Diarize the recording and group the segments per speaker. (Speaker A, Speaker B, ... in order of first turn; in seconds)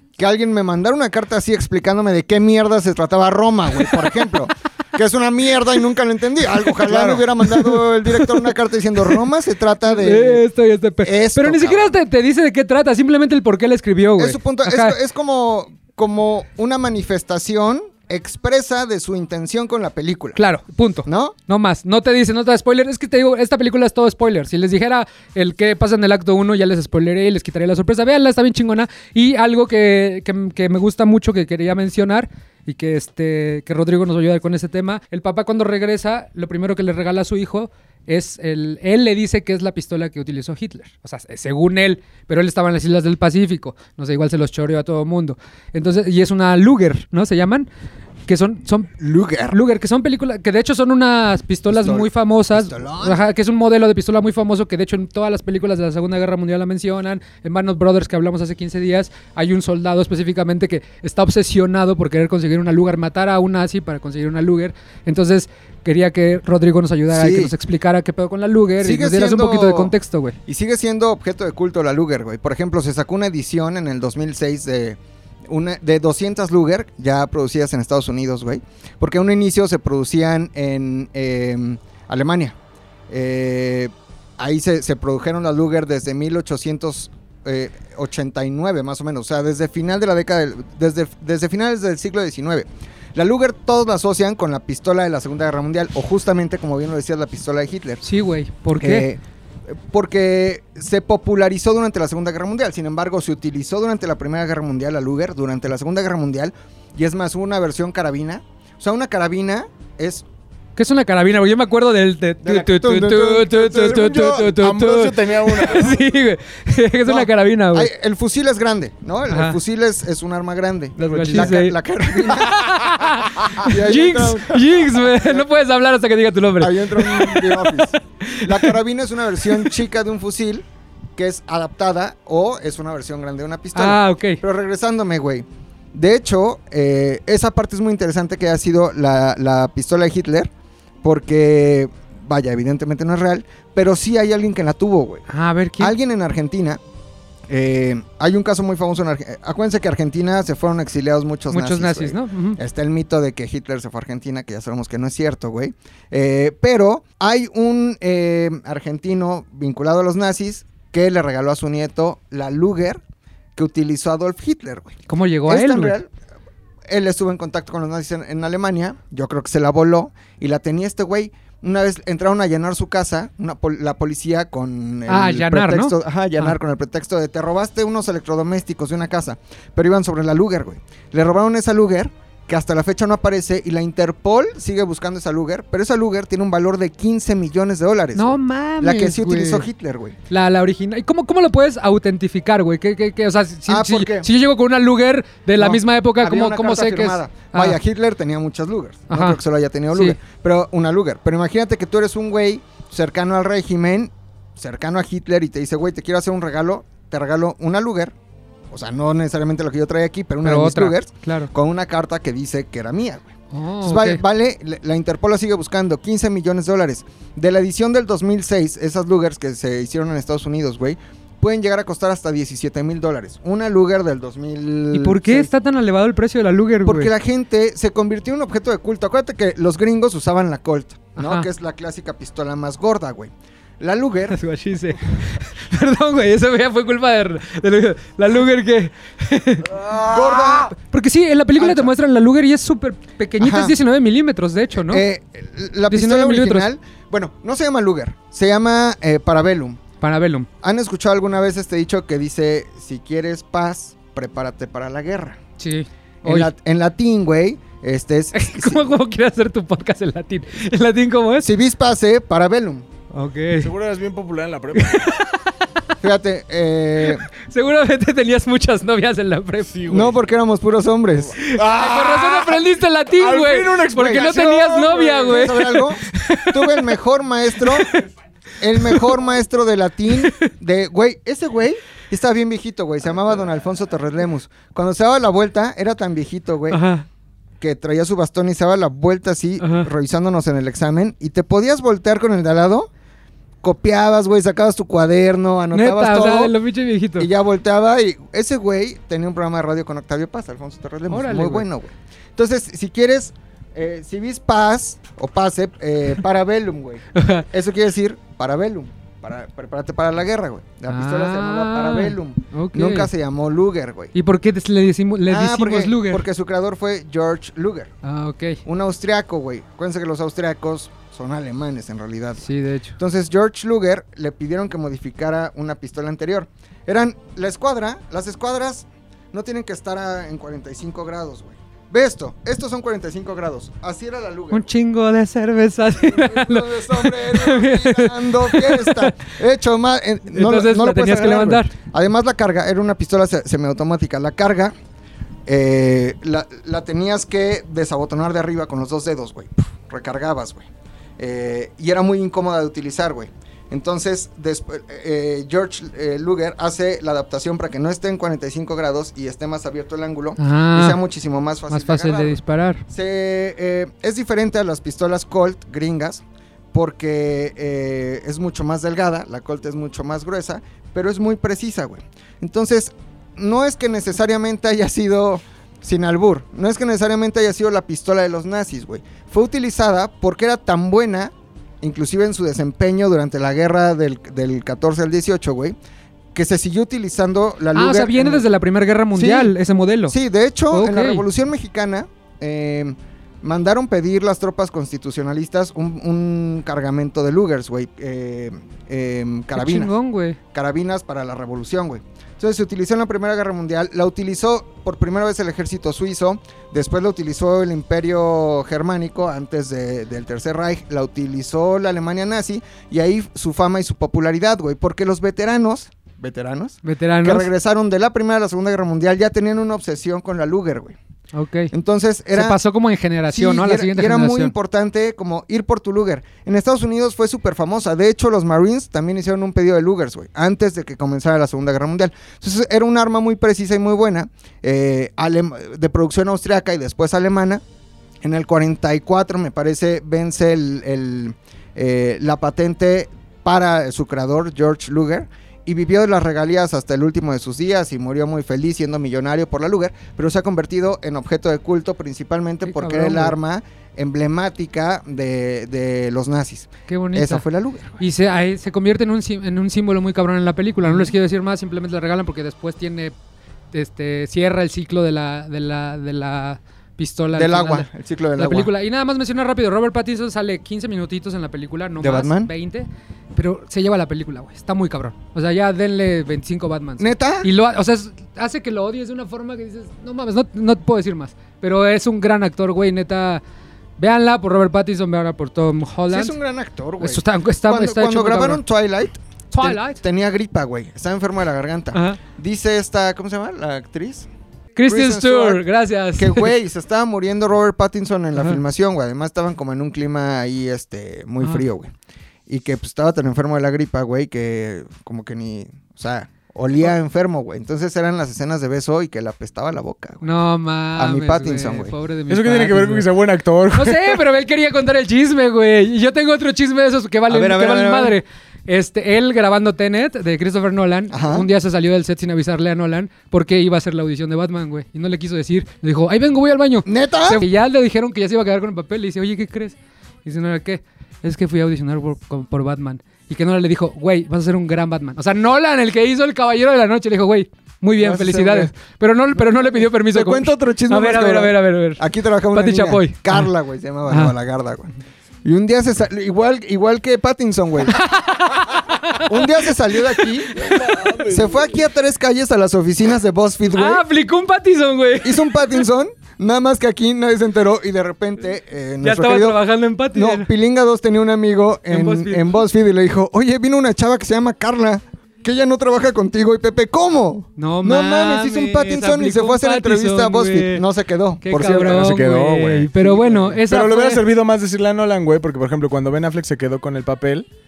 Speaker A: 0.2-10.4, 11.0-11.9, 14.2-20.4, 21.1-21.4, 49.0-49.6, 51.7-53.2, 67.1-67.5, 68.8-69.9, 70.5-82.5, 83.1-98.0, 98.8-110.2, 112.4-114.2, 117.0-125.5, 126.6-140.5, 141.0-145.2, 145.8-146.8, 147.5-163.0, 163.6-166.1, 166.9-190.2, 193.7-194.3, 195.6-208.1, 208.7-225.5, 226.8-234.4, 239.8-240.7, 241.6-241.9, 243.4-243.8, 244.7-249.8, 250.6-255.4, 256.2-258.9, 261.4-262.9, 266.0-267.2, 269.9-271.4, 273.9-274.4, 275.2-277.9, 278.6-286.8, 287.6-292.9, 293.6-296.5, 297.2-314.1, 315.3-317.9, 318.6-322.4, 323.0-334.6, 335.9-344.7, 345.5-350.7, 351.2-385.8, 386.3-388.4, 389.1-389.5, 390.1-399.9, 400.5-421.0, 421.7-422.6, 423.3-437.6, 438.2-458.0, 467.3-468.7, 472.0-472.5, 477.0-477.5, 486.1-494.3, 494.9-495.6, 496.1-501.9, 502.5-510.2, 510.9-511.9, 517.3-518.2, 521.1-521.5, 526.8-527.4, 538.0-538.7, 539.3-544.9, 545.4-548.0, 549.2-554.0, 555.2-559.6, 560.1-572.1, 573.0-573.6
Speaker B: 6.8-7.3, 113.6-116.0, 121.0-121.6, 263.6-265.2, 269.7-270.2, 271.4-272.6, 273.1-275.5, 512.3-514.2, 550.5-551.8, 571.5-572.9, 573.6-577.5
Speaker C: 9.8-14.9, 20.4-47.7, 48.3-48.9, 49.5-70.4, 98.0-99.1, 110.8-117.9, 119.3-119.6, 121.0-128.7, 133.7-134.4, 145.3-145.9, 151.5-152.6, 165.1-166.0, 175.1-176.6, 188.1-189.7, 190.3-197.8, 199.1-199.4, 199.9-200.2, 210.4-211.5, 213.5-214.2, 224.9-227.1, 231.2-231.5, 234.3-245.0, 245.9-246.7, 250.0-250.5, 255.6-256.5, 258.3-261.5, 263.1-263.7, 264.8-265.5, 267.5-269.7, 271.4-276.9, 277.6-278.0, 278.8-279.1, 280.2-280.4, 286.7-287.1, 289.6-289.9, 295.7-297.3, 301.1-301.6, 307.1-307.4, 310.9-313.1, 314.1-316.2, 318.0-318.6, 322.4-323.0, 334.5-339.1, 340.3-341.7, 360.4-361.0, 361.7-362.8, 387.7-390.1, 390.7-391.2, 399.5-400.4, 416.8-417.5, 421.3-421.7, 422.3-424.5, 452.6-453.4, 456.9-457.4, 458.0-463.1, 463.7-483.4, 484.0-486.3, 487.0-488.6, 489.5-490.0, 491.9-492.2, 494.8-496.5, 510.2-513.1, 513.7-543.5, 544.1-544.3, 547.9-551.1, 553.7-555.8, 559.0-560.5, 561.9-562.6, 567.6-570.8, 571.4-574.2